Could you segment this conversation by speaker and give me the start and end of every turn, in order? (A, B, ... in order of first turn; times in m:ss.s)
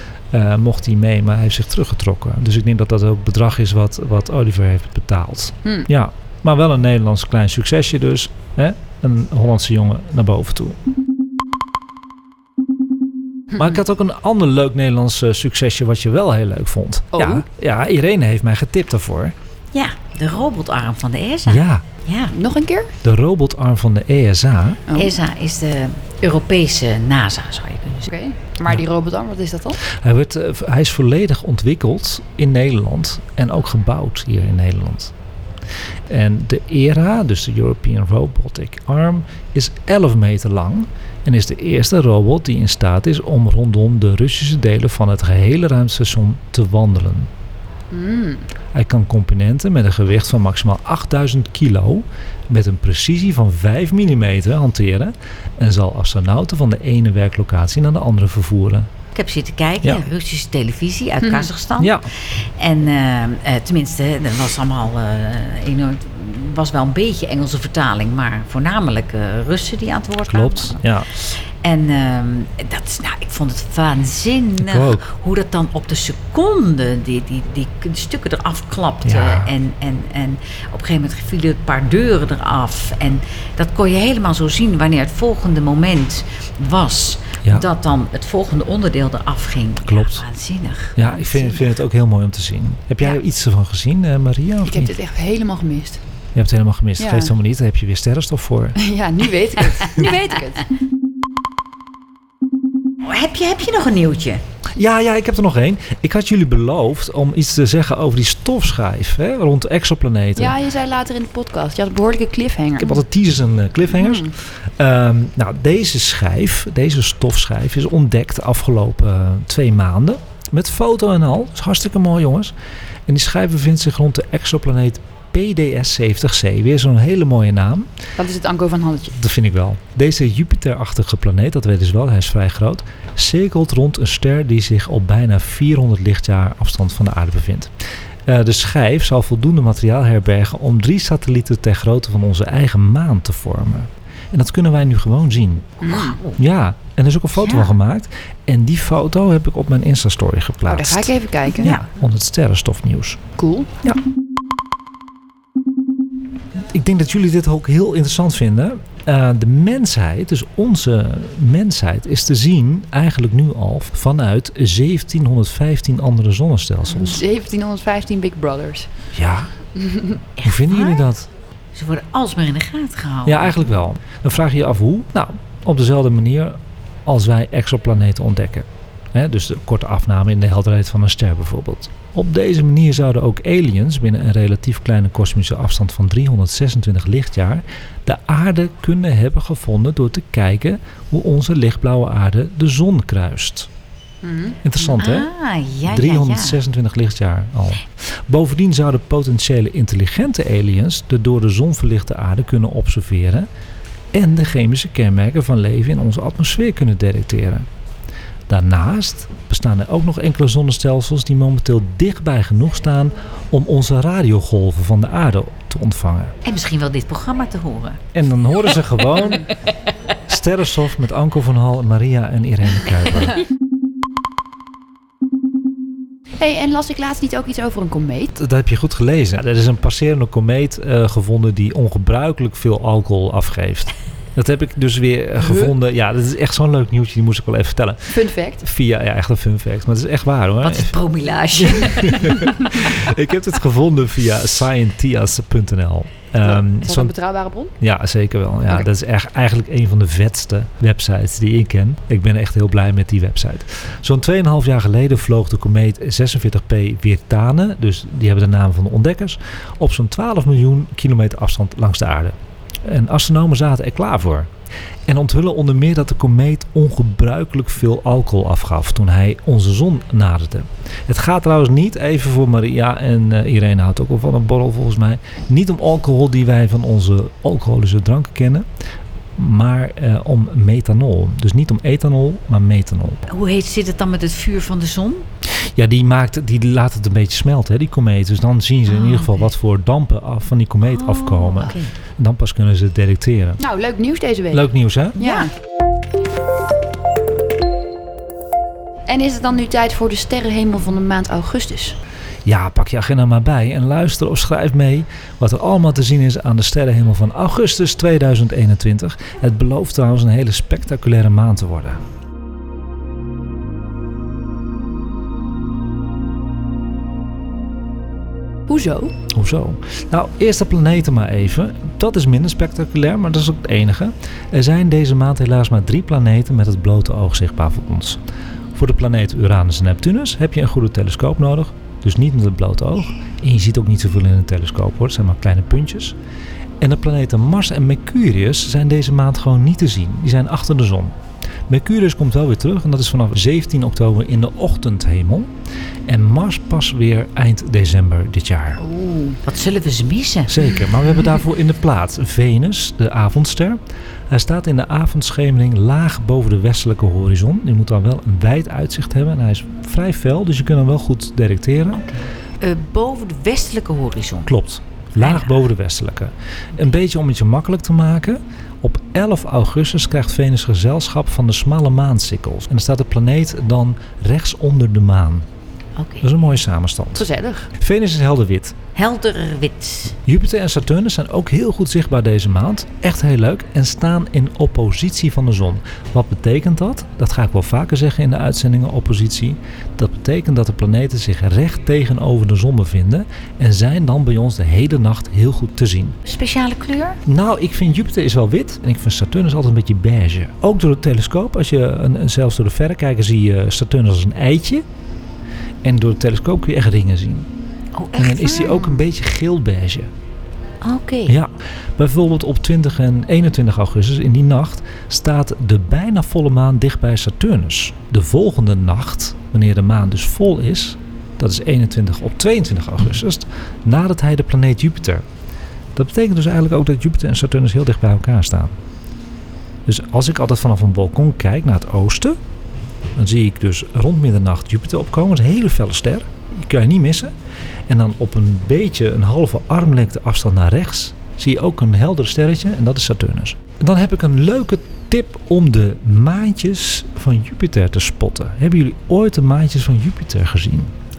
0:00.3-0:10.8 A
0:13.5-0:19.3 A
0:17.1-0:17.4 B
0:19.7-0:22.3 C
0:21.4-0:21.8 A
0:22.3-0:22.9 B
0:23.0-0:24.8 A
0:24.9-0:25.2 B
0:24.9-0:28.1 C
0:28.1-0:29.8 B
0:29.8-0:35.1 A
0:36.1-0:47.3 A
0:47.9-0:48.4 B
0:48.7-0:58.9 A
0:59.1-1:31.6 C
1:01.2-1:01.5 B
1:01.8-1:02.1 A
1:10.3-1:11.1 A
1:14.6-1:15.0 A
1:19.0-1:19.5 A
1:29.8-1:30.2 A
1:31.0-1:35.0 A
1:34.6-1:36.0 B
1:36.3-1:38.8 A
1:37.0-1:37.3 B
1:38.8-1:40.7 B
1:43.0-1:44.4 C
1:44.7-1:50.6 A
1:50.4-1:53.0 B
1:52.8-2:02.5 A
1:54.0-1:54.3 B
2:03.1-2:07.9 A
2:08.2-2:09.2 B
2:09.1-2:17.7 A
2:18.2-2:33.2 A
2:25.8-2:26.2 B
2:25.8-2:26.4 C
2:27.4-2:27.7 C
2:30.6-2:31.8 B
2:33.4-2:33.7 B
2:36.7-2:47.2 A
2:46.9-2:48.9 B
2:49.1-2:49.5 A
2:49.8-2:50.2 B
2:50.4-2:51.0 C
2:50.4-2:51.3 A
2:51.7-2:53.7 C
2:53.2-3:13.7 A
3:14.2-3:15.0 B
3:14.6-3:15.3 A
3:15.0-3:16.6 C
3:15.8-3:23.5 A
3:24.1-3:27.7 A
3:28.5-3:36.3 A
3:36.4-3:38.0 C
3:38.1-3:39.5 A
3:40.3-3:43.4 A
3:46.4-3:48.3 B
3:48.4-4:01.0 A
3:58.1-3:58.6 B
4:00.6-4:02.4 C
4:01.6-4:07.1 A
4:06.4-4:07.7 B
4:07.8-4:24.5 A
4:25.1-4:38.6 A
4:39.4-4:43.2 A
4:43.3-4:45.2 C
4:45.6-4:53.6 A
4:48.9-4:49.5 C
4:50.8-4:51.9 C
4:53.6-4:54.6 B
4:54.5-4:55.3 A
4:55.2-4:55.5 B
4:55.2-4:55.5 C
4:59.1-5:02.0 B
5:02.4-5:12.0 A
5:18.7-5:19.2 B
5:19.3-5:28.2 A
5:28.7-5:36.2 A
5:36.8-5:41.1 A
5:41.7-5:45.5 A
5:46.1-5:48.8 A
5:48.8-5:49.4 B
5:49.4-5:50.7 C
5:50.5-6:02.1 A
6:02.1-6:04.5 C
6:04.5-6:15.4 A
6:05.2-6:05.7 C
6:16.0-6:16.3 C
6:16.2-6:18.8 A
6:17.2-6:17.7 B
6:18.9-6:20.2 C
6:20.2-6:36.2 A
6:36.2-6:37.2 C
6:37.2-6:44.8 A
6:45.8-6:47.5 A
6:47.9-6:49.0 C
6:48.2-6:50.1 A
6:50.8-6:51.4 C
6:51.3-7:05.2 A
7:05.9-7:08.7 A
7:09.8-7:12.4 A
7:13.1-7:17.3 A
7:17.9-7:30.9 A